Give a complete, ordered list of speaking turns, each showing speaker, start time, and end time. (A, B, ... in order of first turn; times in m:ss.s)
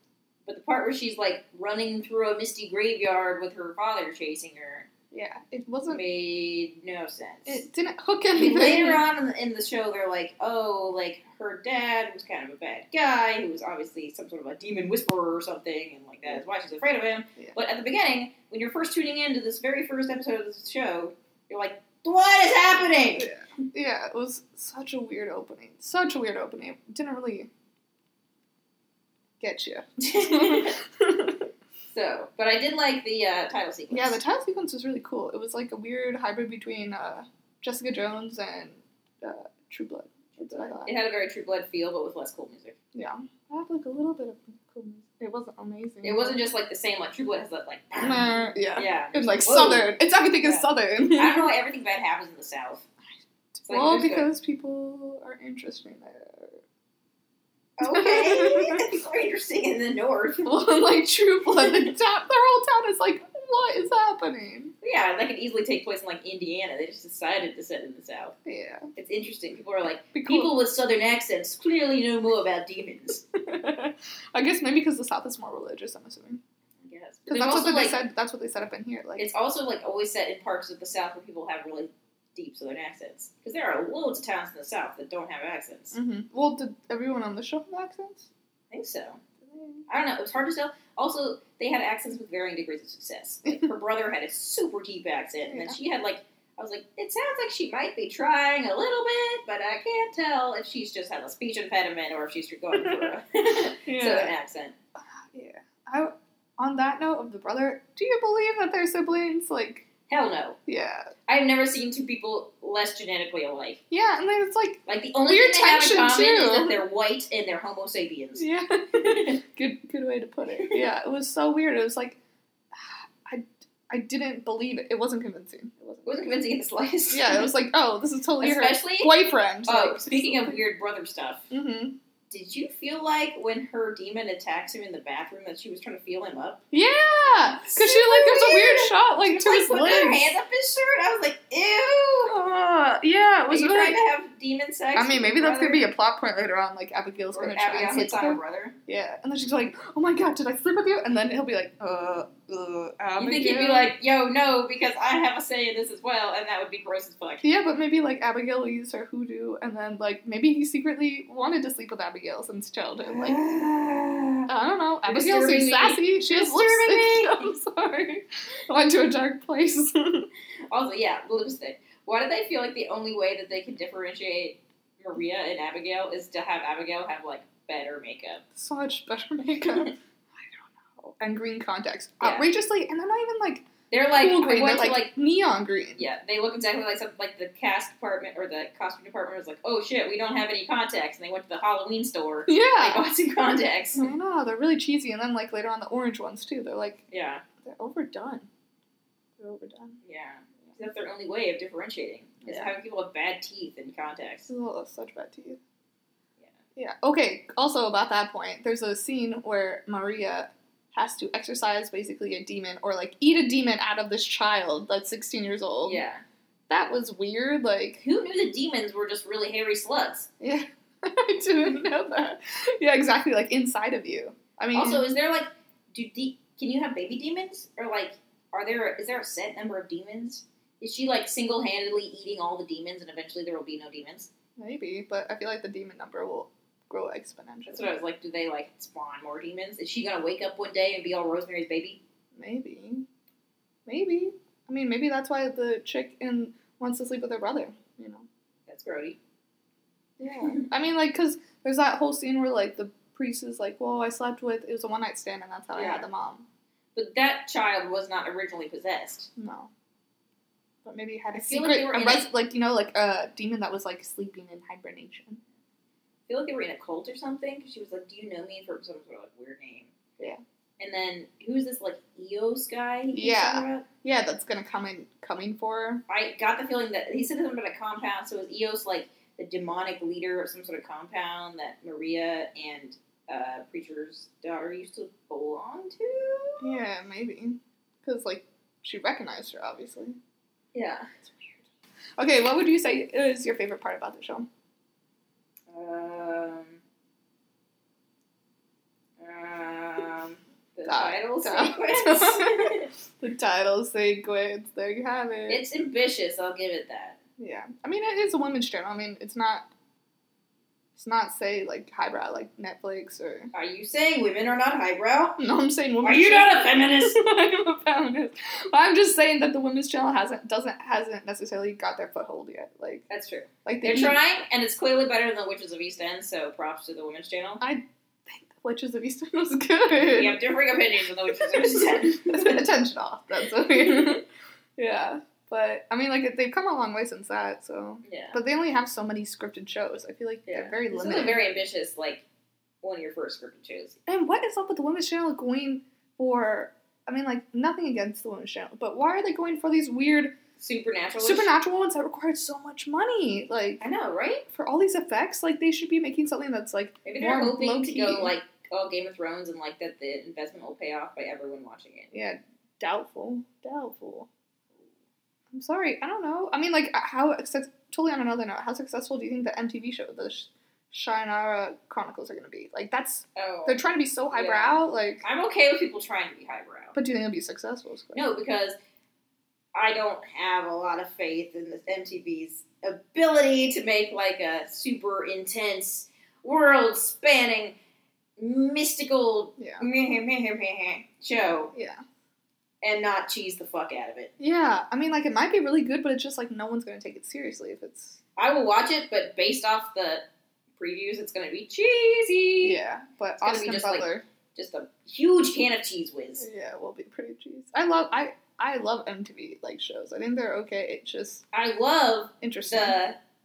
0:00.4-0:04.9 A
0:05.1-0:06.0 B
0:05.8-0:07.6 A
0:07.4-0:09.0 B
0:08.3-0:23.3 A
0:23.1-0:27.5 B
0:29.4-0:31.5 B
0:30.0-0:30.8 A
0:31.9-0:34.2 A
0:33.9-0:40.9 B
0:40.3-0:42.8 A
0:42.9-0:46.4 B
0:46.0-0:52.9 A
0:48.0-0:51.5 B
0:53.5-0:56.6 B
0:53.6-0:54.3 A
0:57.8-1:00.6 A
0:57.8-0:58.9 B
1:00.4-1:04.7 B
1:01.5-1:01.9 A
1:04.8-1:08.4 A
1:08.4-1:08.8 B
1:09.0-1:13.2 A
1:10.1-1:10.6 B
1:13.3-1:16.4 B
1:16.8-1:18.0 A
1:17.3-1:19.3 B
1:19.2-1:26.0 A
1:25.9-1:28.3 B
1:28.7-1:29.2 A
1:29.4-1:29.8 B
1:29.9-1:44.7 A
1:35.4-1:35.8 B
1:42.7-1:43.1 B
1:43.8-1:44.3 B
1:45.3-1:49.9 B
1:50.0-1:50.6 A
1:50.6-1:51.1 B
1:51.3-1:53.8 A
1:53.9-1:56.8 B
1:54.8-1:58.5 A
1:58.4-2:02.2 B
1:59.0-1:59.4 A
2:00.5-2:00.9 A
2:02.7-2:06.4 B
2:06.0-2:07.5 A
2:07.1-2:10.6 B
2:08.4-2:11.5 A
2:11.5-2:12.0 B
2:12.3-2:16.6 A
2:16.7-2:20.3 B
2:17.6-2:22.4 A
2:22.3-2:24.0 B
2:23.5-2:25.9 A
2:24.9-2:33.9 B
2:27.3-2:28.8 A
2:33.2-2:37.4 A
2:37.4-2:43.4 B
2:43.0-2:44.5 A
2:44.5-2:50.3 B
2:45.0-2:47.6 A
2:50.7-2:58.4 A
2:58.5-3:06.1 B
3:02.2-3:02.5 A
3:03.9-3:05.1 A
3:06.0-3:14.1 A
3:12.5-3:13.0 B
3:14.0-3:18.5 B
3:17.1-3:17.5 A
3:19.4-3:20.0 B
3:20.0-3:24.5 A
3:22.4-3:22.7 B
3:24.5-3:25.6 B
3:26.8-3:36.0 B
3:35.8-3:36.2 A
3:36.7-3:38.0 B
3:38.0-3:40.3 A
3:40.4-3:45.1 B
3:44.7-3:54.3 A
3:54.6-3:57.9 B
3:57.7-4:02.0 A
4:02.3-4:03.1 B
4:03.9-4:08.3 B
4:08.7-4:09.2 A
4:10.2-4:16.4 B
4:15.7-4:16.1 A
4:16.9-4:19.3 A
4:19.4-4:19.7 B
4:20.8-4:25.4 B
4:21.3-4:22.3 A
4:26.3-4:29.9 A
4:30.8-4:33.9 A
4:33.1-4:36.0 B
4:36.1-4:46.8 A
4:46.6-4:50.2 B
4:50.7-4:51.2 A
4:51.2-4:51.6 B
4:52.2-4:54.5 B
4:55.7-4:56.8 A
4:59.2-5:02.9 A
5:00.8-5:05.6 B
5:05.5-5:07.2 A
5:07.4-5:09.7 B
5:10.9-5:13.5 B
5:13.5-5:15.4 A
5:15.4-5:23.0 B
5:16.0-5:17.2 A
5:23.1-5:27.6 A
5:23.6-5:24.2 B
5:27.6-5:34.2 B
5:29.9-5:32.7 A
5:33.7-5:34.2 A
5:34.8-5:41.6 B
5:38.0-5:38.4 A
5:40.4-5:42.2 A
5:42.8-5:44.0 A
5:44.0-5:50.4 B
5:50.5-5:51.5 A
5:51.2-5:53.9 B
5:53.8-5:54.5 A
5:54.4-5:58.4 B
5:57.0-6:02.1 A
6:02.1-6:04.3 B
6:05.5-6:15.2 B
6:13.3-6:16.9 A
6:16.9-6:18.3 B
6:18.1-6:18.7 A
6:19.7-6:27.8 A
6:28.4-6:31.7 A
6:29.6-6:29.9 B
6:31.7-6:32.0 B
6:32.8-6:34.3 A
6:34.4-6:38.2 B
6:38.4-6:40.2 A
6:40.8-6:42.8 A
6:42.6-6:44.2 B
6:43.4-6:46.5 A
6:46.4-6:51.4 B
6:51.5-6:53.2 A
6:52.4-6:53.0 B